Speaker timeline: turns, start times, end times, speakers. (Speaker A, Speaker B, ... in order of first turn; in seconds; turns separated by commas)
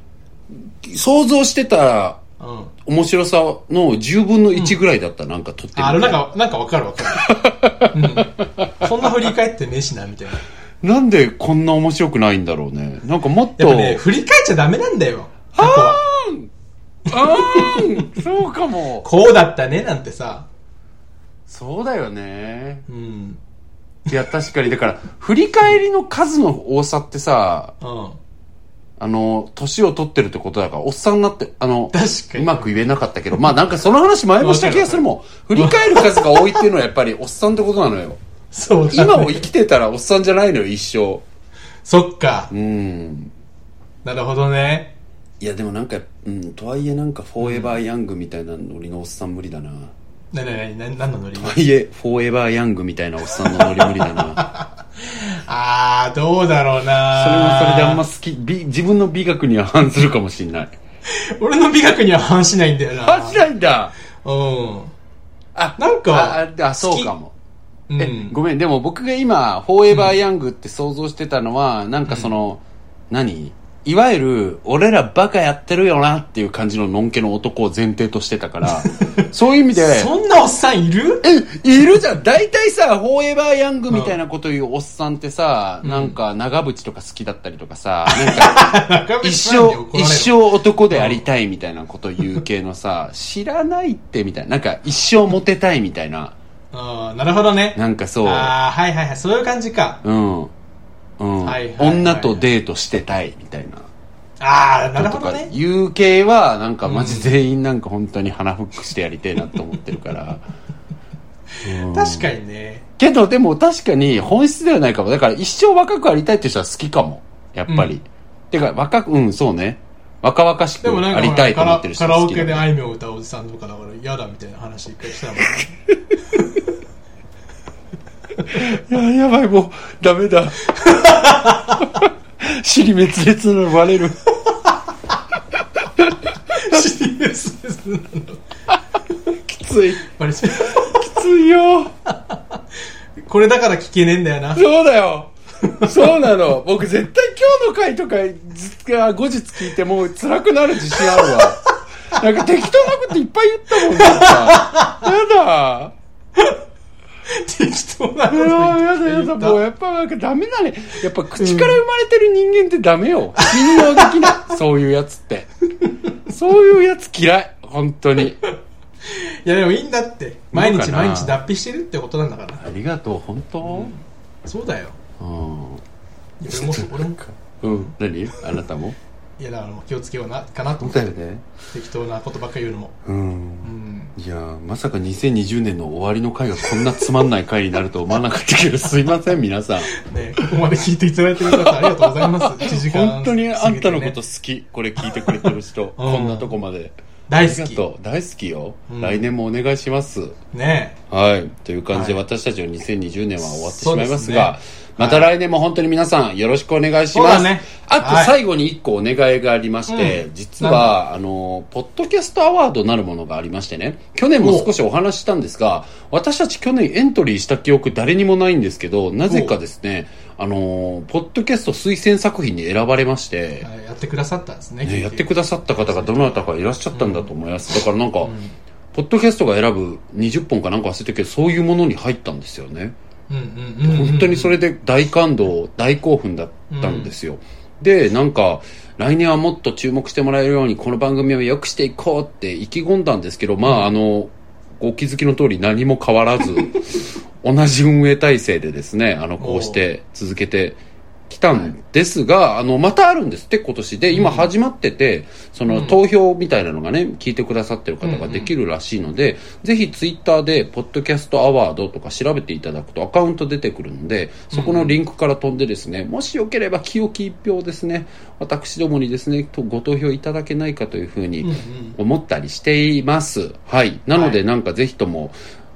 Speaker A: 0.5-2.2, Speaker B: 2.4-2.7, Speaker A: 2.8-6.2, Speaker B: 4.5-4.8, Speaker B: 5.8-7.3, Speaker A: 7.1-9.1, Speaker B: 7.9-10.4, Speaker A: 10.8-14.0, Speaker B: 13.6-16.0, Speaker A: 15.6-16.5, Speaker A: 17.1-19.1, Speaker B: 17.1-18.2, Speaker B: 19.0-20.5, Speaker A: 21.5-22.8, Speaker B: 22.9-23.4, Speaker A: 24.1-27.7, Speaker B: 27.8-28.2, Speaker A: 29.0-38.2, Speaker B: 31.9-32.8, Speaker B: 34.4-35.0, Speaker B: 35.5-36.6, Speaker B: 38.5-39.5, Speaker A: 38.9-41.2, Speaker B: 41.8-42.5, Speaker A: 42.5-43.3, Speaker B: 44.0-44.9, Speaker A: 45.4-49.9, Speaker B: 47.4-47.8, Speaker B: 50.3-51.6, Speaker A: 51.4-54.4, Speaker B: 53.5-58.0, Speaker A: 57.1-60.8, Speaker B: 61.0-63.5, Speaker A: 63.0-63.9, Speaker B: 64.2-64.9, Speaker A: 65.5-67.3, Speaker B: 65.8-67.1, Speaker B: 67.9-68.3, Speaker A: 68.0-80.1, Speaker B: 69.9-70.2, Speaker B: 72.0-72.3, Speaker B: 78.8-81.2, Speaker A: 81.2-88.7, Speaker B: 83.9-84.2, Speaker B: 85.8-86.2, Speaker B: 88.1-91.2, Speaker A: 89.2-96.3, Speaker B: 96.7-100.0, Speaker A: 97.8-98.5, Speaker A: 100.0-100.5, Speaker A: 101.2-103.9, Speaker B: 101.4-102.4, Speaker B: 104.4-105.5, Speaker A: 105.0-110.4, Speaker B: 106.8-107.3, Speaker B: 111.5-112.8, Speaker A: 111.6-112.3, Speaker A: 113.0-122.7, Speaker B: 117.7-118.0, Speaker B: 120.8-125.8, Speaker B: 126.3-126.6, Speaker A: 128.5-130.6, Speaker B: 130.7-132.0, Speaker A: 131.8-134.2, Speaker B: 134.5-135.2, Speaker A: 136.0-136.8, Speaker B: 136.5-138.4, Speaker A: 139.4-141.9, Speaker B: 140.0-141.1, Speaker B: 142.1-142.5, Speaker B: 143.2-144.7, Speaker A: 144.5-155.9, Speaker B: 145.6-146.2, Speaker B: 151.2-151.5, Speaker B: 153.8-155.0, Speaker B: 157.3-159.6, Speaker A: 158.3-165.5, Speaker B: 161.4-161.8, Speaker B: 163.4-164.5, Speaker A: 166.3-168.4, Speaker B: 169.0-172.6, Speaker A: 170.5-171.4, Speaker A: 172.6-173.9, Speaker B: 173.6-175.0, Speaker A: 175.2-175.8, Speaker B: 176.4-177.2, Speaker A: 176.5-179.0, Speaker B: 179.4-181.1, Speaker A: 180.8-181.4, Speaker B: 181.7-182.9, Speaker A: 183.1-190.5, Speaker B: 183.6-184.1, Speaker B: 189.9-194.2, Speaker A: 191.4-200.3, Speaker B: 195.1-196.5, Speaker B: 197.3-197.8, Speaker B: 198.9-199.2, Speaker B: 200.5-201.0, Speaker A: 201.1-223.7, Speaker B: 201.9-202.2, Speaker B: 203.4-205.3, Speaker B: 207.1-208.3, Speaker B: 209.9-210.9, Speaker B: 214.4-214.7, Speaker B: 219.3-219.6, Speaker B: 223.6-227.3, Speaker A: 224.8-228.3, Speaker B: 228.2-228.6, Speaker A: 228.9-232.9, Speaker B: 233.3-234.6, Speaker A: 233.8-275.4, Speaker B: 236.7-237.1, Speaker B: 243.6-243.9, Speaker B: 249.4-249.8, Speaker B: 254.1-254.5, Speaker B: 255.7-256.0, Speaker B: 258.0-258.5, Speaker B: 264.5-265.0, Speaker B: 271.4-272.0, Speaker B: 274.1-274.4